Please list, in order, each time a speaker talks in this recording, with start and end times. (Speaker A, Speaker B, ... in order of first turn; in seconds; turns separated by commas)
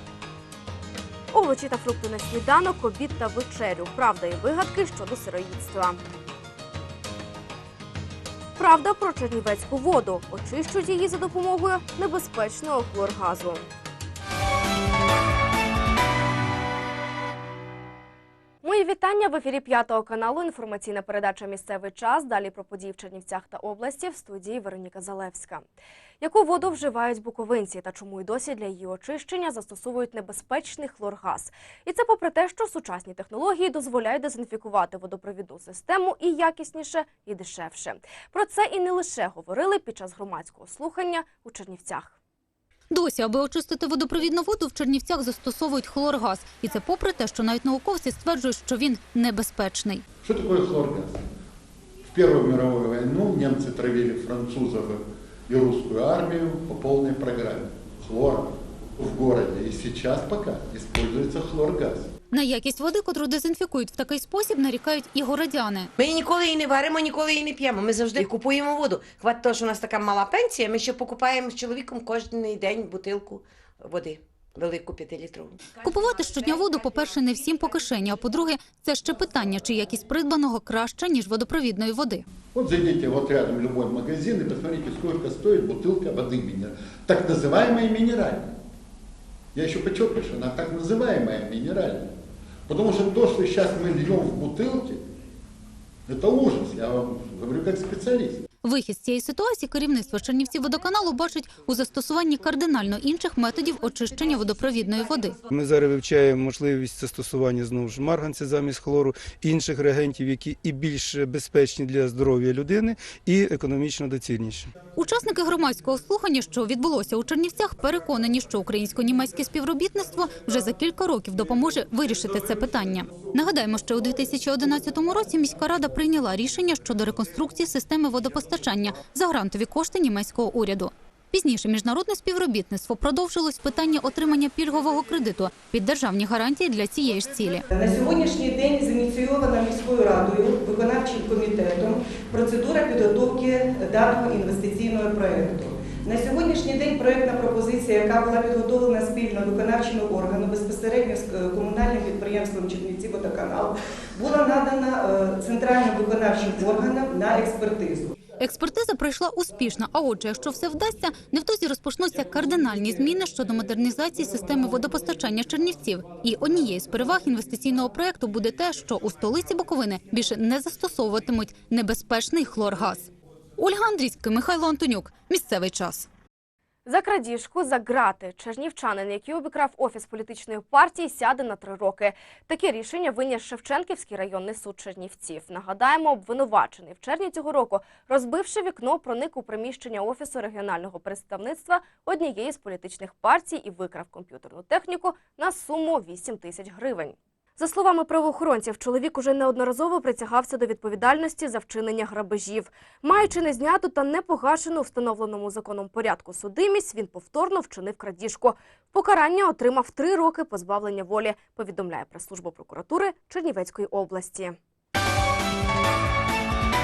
Speaker A: 1.3-6.0, Speaker A: 8.6-13.7, Speaker A: 18.6-25.7, Speaker A: 26.2-42.1, Speaker B: 42.9-50.0, Speaker C: 50.2-51.2, Speaker C: 52.1-62.1, Speaker B: 62.3-65.9, Speaker D: 66.0-75.6, Speaker B: 75.8-82.2, Speaker C: 82.5-88.5, Speaker C: 89.5-92.1, Speaker C: 92.7-95.0, Speaker C: 96.1-98.4, Speaker B: 98.6-105.4, Speaker E: 105.5-114.7, Speaker B: 115.0-137.6, Speaker F: 137.7-158.1, Speaker B: 158.4-176.1, Speaker A: 176.9-214.6